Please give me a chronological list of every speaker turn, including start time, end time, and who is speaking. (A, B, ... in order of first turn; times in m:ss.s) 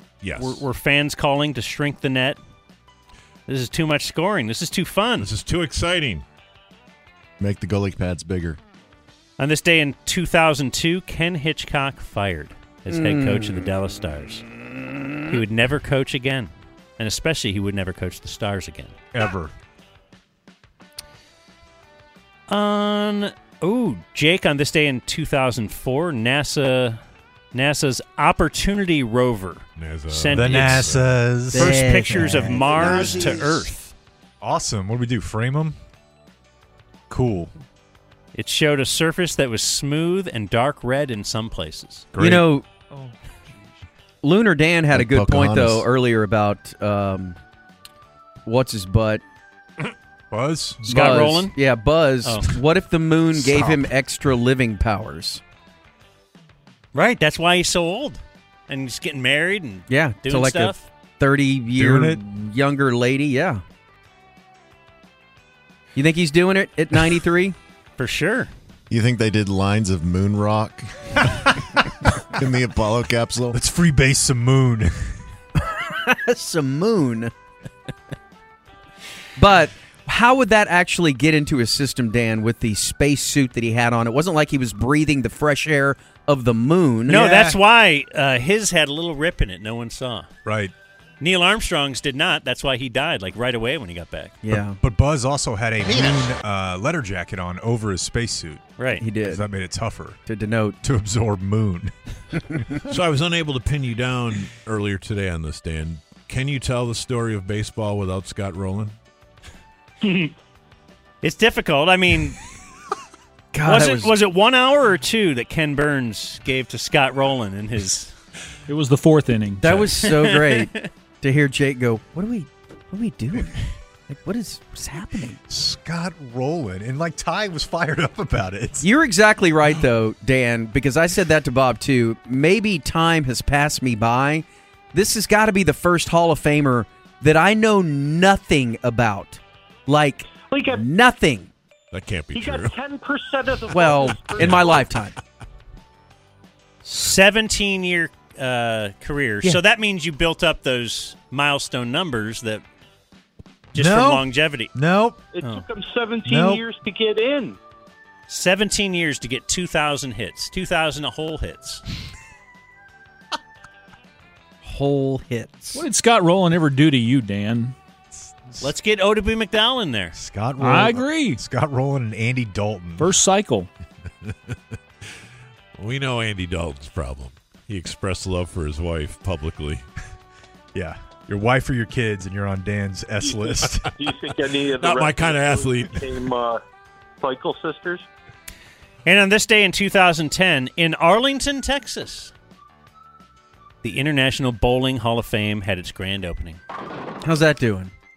0:00.2-0:00.7 A
0:00.4-0:02.4 B
0:03.4-0:05.3 B
0:05.2-0:06.2 A
0:07.4-0:08.6 C
0:09.4-0:14.4 B
0:12.9-0:13.6 D
0:15.3-0:18.9 B
0:19.1-0:19.5 E
0:22.5-0:27.0 B
0:27.5-0:30.9 B
0:29.8-0:31.1 A
0:30.3-0:33.5 E
0:31.5-0:33.4 D
0:31.5-0:33.9 B
0:34.4-0:35.8 E
0:37.1-0:37.5 E
0:38.3-0:42.1 B
0:42.1-0:42.5 E
0:42.2-0:42.7 D
0:44.2-0:47.4 D
0:44.9-0:45.9 C
0:48.4-0:49.2 D
0:50.3-0:51.1 E
0:50.8-0:55.4 D
0:50.9-0:51.5 B
0:52.2-0:52.5 B
0:53.4-0:53.9 E
0:56.9-1:00.8 B
0:59.9-1:03.6 D
1:01.7-1:02.2 E
1:05.9-1:07.6 D
1:08.0-1:08.5 B
1:08.9-1:10.9 C
1:12.3-1:13.6 C
1:13.5-1:15.1 E
1:15.6-1:17.3 D
1:19.4-1:27.2 D
1:27.0-1:30.3 B
1:27.1-1:27.6 E
1:30.4-1:30.7 E
1:31.2-1:34.3 B
1:34.4-1:34.8 D
1:34.5-1:38.6 E
1:38.8-1:39.0 B
1:39.0-1:39.4 D
1:39.2-1:40.2 E
1:40.3-1:40.8 D
1:40.8-1:41.9 E
1:42.9-1:48.9 A
1:51.2-1:52.4 B
1:53.5-1:54.1 D
1:53.6-1:58.1 B
1:58.7-2:00.0 F
1:59.6-2:05.4 D
2:00.0-2:00.8 B
2:05.5-2:08.9 E
2:08.8-2:21.5 D
2:20.5-2:20.8 G
2:21.9-2:22.8 A
2:22.3-2:24.6 G
2:23.7-2:25.1 D
2:24.4-2:24.9 A
2:26.8-2:32.6 B
2:33.7-2:34.7 B
2:33.7-2:35.2 E
2:35.4-2:37.6 G
2:35.4-2:35.6 B
2:36.2-2:36.6 E
2:38.3-2:41.8 B
2:44.6-2:45.8 D
2:45.7-2:47.7 F
2:48.6-2:50.2 B
2:50.2-2:53.1 E
2:50.6-2:51.4 F
2:53.0-2:53.7 F
2:54.2-2:54.5 A
2:55.8-2:59.8 A
3:00.7-3:03.9 E
3:03.2-3:06.6 G
3:04.6-3:06.3 A
3:07.2-3:08.0 G
3:09.0-3:12.3 B
3:13.8-3:16.6 B
3:17.2-3:17.9 D